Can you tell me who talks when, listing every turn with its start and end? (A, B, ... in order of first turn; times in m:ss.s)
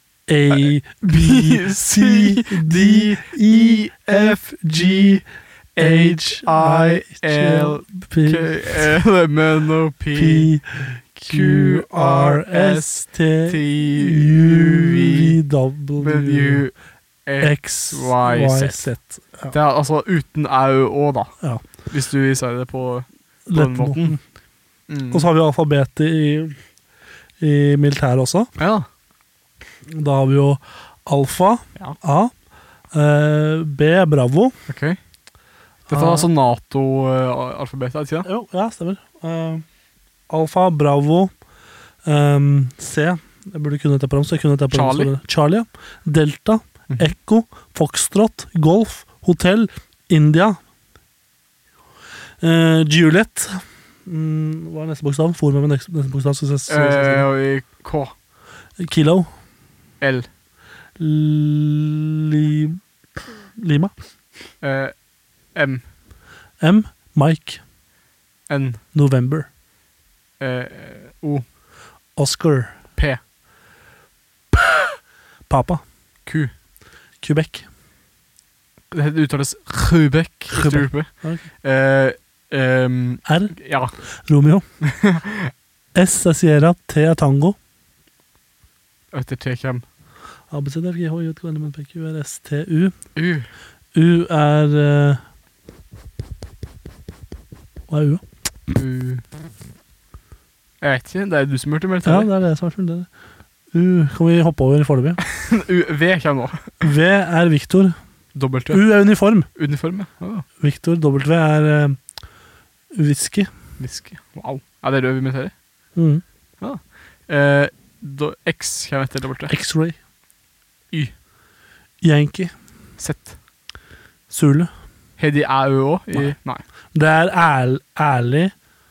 0:00.3-0:05.1 A
0:00.5-0:10.5 B
0:05.8-0:08.9 A
0:10.2-0:16.6 A
0:11.2-0:15.4 B
0:16.0-0:18.9 B
0:17.4-0:19.5 A
0:19.5-0:21.3 B
0:21.9-0:24.2 B
0:23.5-0:24.2 A
0:24.9-0:25.3 B
0:25.1-0:26.6 A
0:27.4-0:28.5 A
0:28.6-0:28.9 B
0:29.9-0:32.3 A
0:32.9-0:34.5 A
0:34.7-0:35.0 B
0:35.9-0:36.3 A
0:35.9-0:38.3 B
0:38.2-0:39.6 A
0:40.3-0:41.3 A
0:42.0-0:50.6 A
0:44.7-0:45.1 B
0:52.4-0:57.3 A
0:56.7-0:58.1 B
0:58.8-0:59.3 A
1:00.0-1:00.3 B
1:01.0-1:03.9 A
1:04.6-1:04.9 B
1:05.5-1:05.8 B
1:06.6-1:07.6 A
1:08.5-1:08.8 B
1:08.9-1:09.5 A
1:10.4-1:11.4 B
1:12.2-1:12.8 A
1:14.5-1:14.8 A
1:15.5-1:15.8 A
1:16.3-1:16.5 B
1:17.2-1:17.6 A
1:18.9-1:21.1 B
1:20.5-1:21.4 A
1:21.6-1:23.9 B
1:23.3-1:23.5 A
1:24.2-1:24.6 A
1:24.8-1:25.5 B
1:25.9-1:27.6 A
1:29.1-1:29.8 B
1:30.5-1:33.0 A
1:33.2-1:33.5 B
1:33.9-1:35.2 A
1:37.9-1:38.2 A
1:38.7-1:39.2 B
1:40.8-1:42.3 B
1:42.0-1:43.1 A
1:43.7-1:45.2 A
1:45.2-1:46.8 B
1:46.8-1:48.0 A
1:48.4-1:48.8 B
1:48.7-1:49.5 A
1:49.6-1:50.4 B
1:50.6-1:52.0 A
1:52.9-1:53.5 A
1:53.8-1:55.5 B
1:56.0-1:56.2 A
1:56.6-1:59.5 B
1:59.5-2:00.0 A
2:02.0-2:02.5 A
2:03.0-2:03.4 B
2:04.3-2:04.7 A
2:05.2-2:06.6 B
2:06.9-2:08.5 A